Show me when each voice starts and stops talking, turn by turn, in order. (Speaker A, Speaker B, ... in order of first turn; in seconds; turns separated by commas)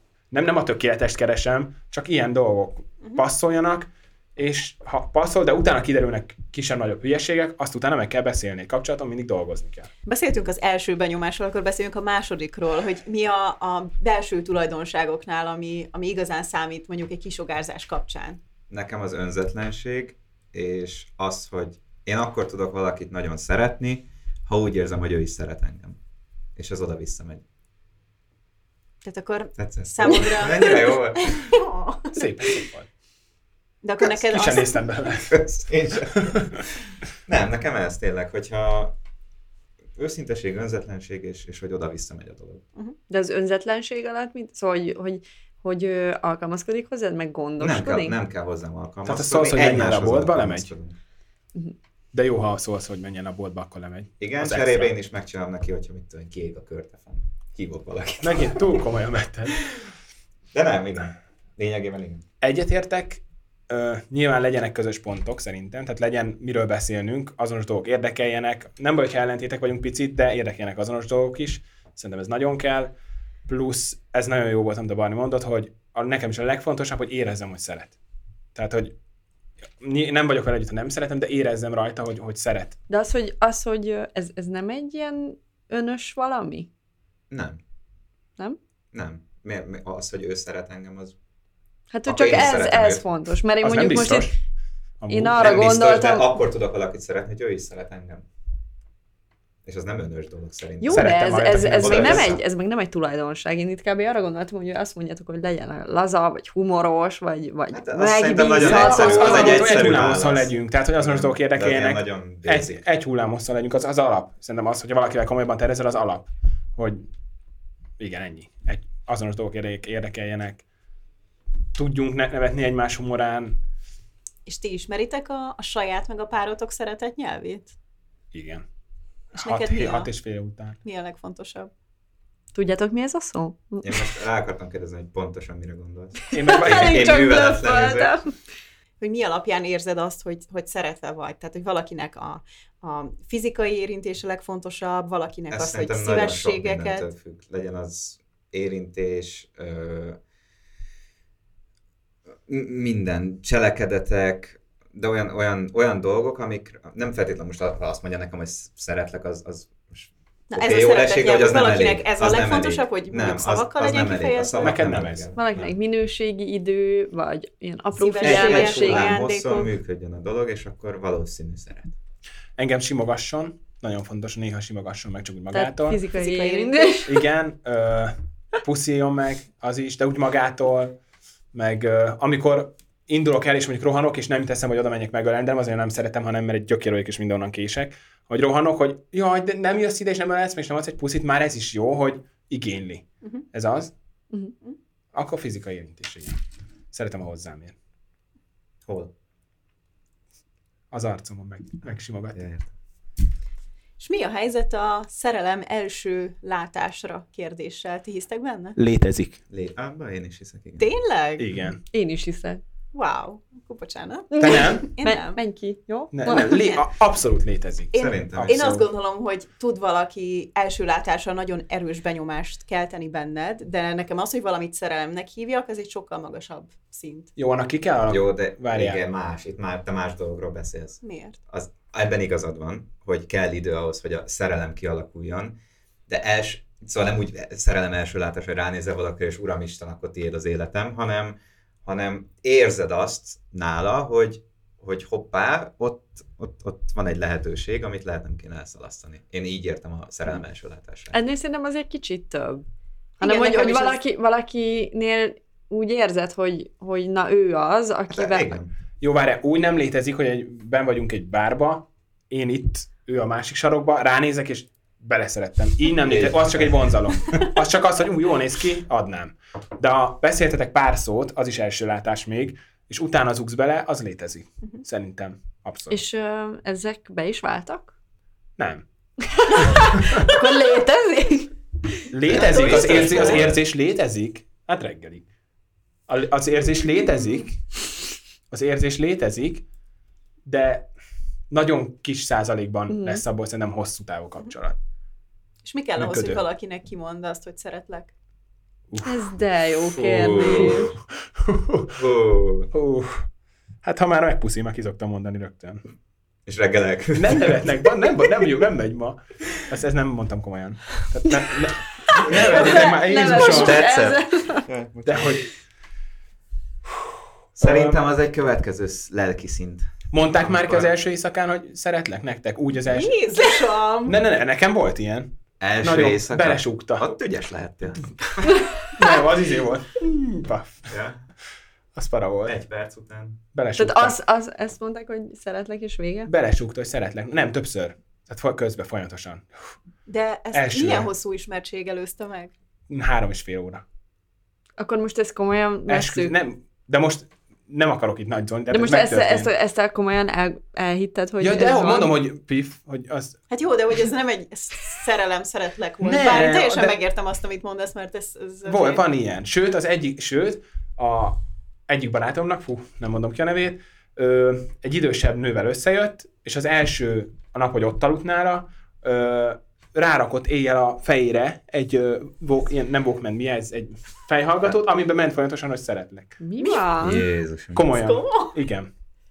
Speaker A: 0.3-9.9, Speaker B: 10.1-18.4, Speaker C: 18.7-26.0, Speaker C: 26.6-27.4, Speaker B: 29.0-32.2, Speaker C: 29.6-31.6, Speaker A: 32.1-32.9, Speaker B: 33.8-34.8, Speaker A: 34.0-35.5, Speaker C: 35.3-36.6, Speaker A: 36.1-36.6, Speaker C: 37.3-39.0, Speaker C: 40.0-42.6, Speaker D: 43.1-48.2, Speaker C: 47.6-51.0, Speaker A: 49.0-50.7, Speaker A: 52.1-54.9, Speaker C: 54.2-58.7, Speaker A: 58.2-59.6, Speaker C: 60.5-62.2, Speaker A: 62.4-72.9, Speaker A: 73.5-78.0, Speaker A: 78.5-78.9, Speaker A: 79.8-82.8, Speaker D: 82.9-86.7, Speaker C: 87.3-87.6, Speaker C: 88.9-91.2, Speaker D: 91.9-94.3, Speaker C: 92.1-93.0, Speaker A: 93.6-94.3, Speaker A: 95.0-95.6, Speaker D: 95.1-96.3, Speaker C: 95.4-98.3, Speaker C: 99.7-102.4, Speaker D: 100.8-110.0, Speaker A: 100.9-102.3, Speaker C: 107.7-112.8, Speaker A: 108.6-117.1, Speaker A: 118.0-120.6, Speaker A: 121.8-123.6, Speaker B: 124.5-127.7, Speaker A: 128.3-128.7, Speaker A: 129.3-130.8, Speaker B: 129.4-130.1, Speaker B: 130.8-131.7, Speaker D: 132.5-134.1, Speaker C: 133.8-138.1, Speaker A: 136.3-137.2, Speaker D: 136.5-138.3, Speaker B: 139.0-147.1, Speaker C: 145.5-150.2, Speaker C: 152.5-165.7, Speaker B: 160.5-164.8, Speaker A: 164.6-165.3, Speaker D: 165.3-169.2, Speaker B: 168.0-169.7, Speaker C: 168.2-171.9, Speaker A: 172.6-176.0, Speaker D: 175.5-177.1, Speaker B: 176.1-177.1, Speaker A: 177.1-180.9, Speaker A: 181.5-193.9, Speaker A: 195.1-196.4, Speaker A: 196.9-197.8, Speaker C: 198.8-199.1, Speaker A: 200.9-202.5, Speaker C: 202.3-202.7, Speaker B: 204.0-208.8, Speaker A: 208.8-209.4, Speaker C: 209.5-210.9, Speaker B: 210.8-211.5, Speaker A: 211.4-211.8, Speaker D: 211.9-212.6, Speaker B: 212.9-215.4, Speaker D: 214.3-216.7, Speaker A: 214.4-214.9, Speaker A: 216.1-218.9, Speaker B: 216.3-216.8, Speaker B: 217.9-227.3, Speaker C: 217.9-218.7, Speaker A: 227.4-229.0, Speaker C: 228.1-235.6, Speaker B: 231.0-231.4, Speaker C: 236.1-251.2, Speaker D: 251.1-252.7, Speaker D: 253.2-258.6, Speaker B: 253.2-254.0, Speaker C: 258.1-258.7, Speaker A: 259.0-276.0, Speaker C: 266.1-267.4, Speaker D: 275.9-277.9, Speaker A: 278.6-278.8, Speaker D: 279.3-281.5, Speaker A: 279.6-280.3, Speaker A: 282.1-285.3, Speaker C: 282.3-283.6, Speaker B: 282.4-283.4, Speaker A: 286.1-287.6, Speaker A: 288.5-289.6, Speaker A: 290.4-290.9, Speaker A: 291.5-294.8, Speaker D: 292.9-293.2, Speaker B: 295.6-298.1, Speaker A: 296.0-296.4, Speaker A: 298.9-299.2, Speaker D: 299.0-300.9, Speaker C: 299.9-301.0, Speaker A: 301.4-302.0, Speaker C: 302.0-302.7, Speaker A: 302.7-303.3, Speaker A: 303.8-305.8, Speaker C: 306.5-307.7, Speaker A: 307.1-313.8, Speaker D: 312.1-314.7, Speaker C: 312.2-315.4, Speaker A: 315.1-315.5, Speaker C: 317.6-320.9, Speaker A: 317.6-318.0, Speaker A: 320.1-323.2, Speaker B: 322.9-324.2, Speaker A: 324.1-327.1, Speaker C: 325.6-328.6, Speaker A: 328.9-330.9, Speaker C: 330.9-331.2, Speaker A: 331.9-332.6, Speaker C: 332.5-333.4, Speaker A: 333.5-334.2, Speaker D: 333.8-336.3, Speaker A: 336.3-339.7, Speaker B: 340.1-342.5, Speaker A: 340.5-341.1, Speaker A: 342.9-343.8, Speaker D: 344.8-346.3, Speaker A: 345.9-349.5, Speaker D: 348.7-352.1, Speaker A: 351.4-353.4, Speaker B: 353.5-359.0, Speaker A: 356.0-357.0, Speaker A: 358.6-376.4, Speaker D: 376.4-377.3, Speaker B: 376.6-377.0, Speaker C: 377.0-377.9, Speaker A: 377.7-378.9, Speaker B: 377.9-378.6